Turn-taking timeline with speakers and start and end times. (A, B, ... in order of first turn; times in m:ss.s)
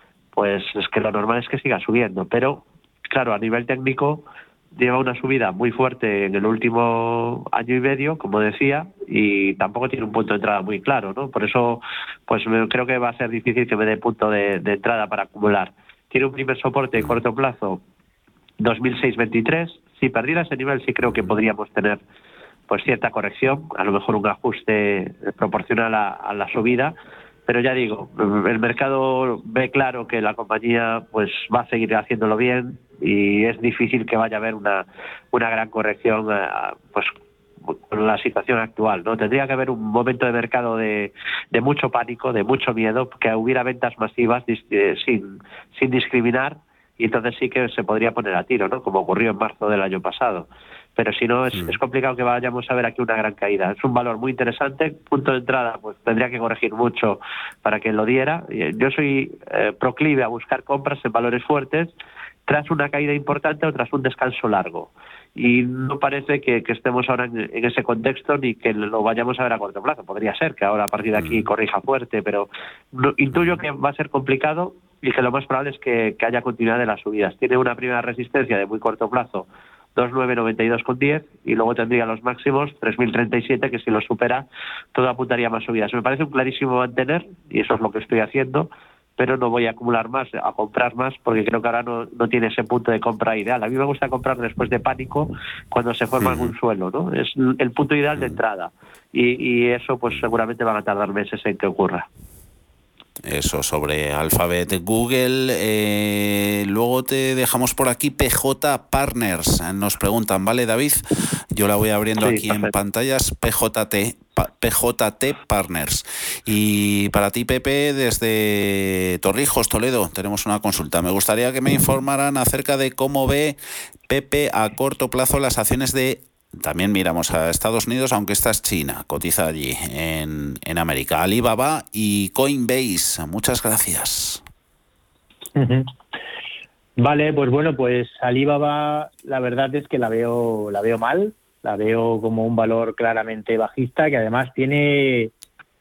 0:00.3-0:17.8 A
0:18.6-0:22.0 A
0:21.0-0:21.4 B
0:22.7-0:26.9 A
0:27.5-0:37.1 A
0:37.9-1:01.9 A
1:02.5-1:42.1 A
1:11.1-1:11.4 B
1:13.3-1:13.6 B
1:36.2-1:36.5 B
1:43.2-1:51.0 B
1:51.5-2:14.4 B
1:52.2-1:52.7 A
2:15.6-2:15.9 C
2:17.0-2:25.3 C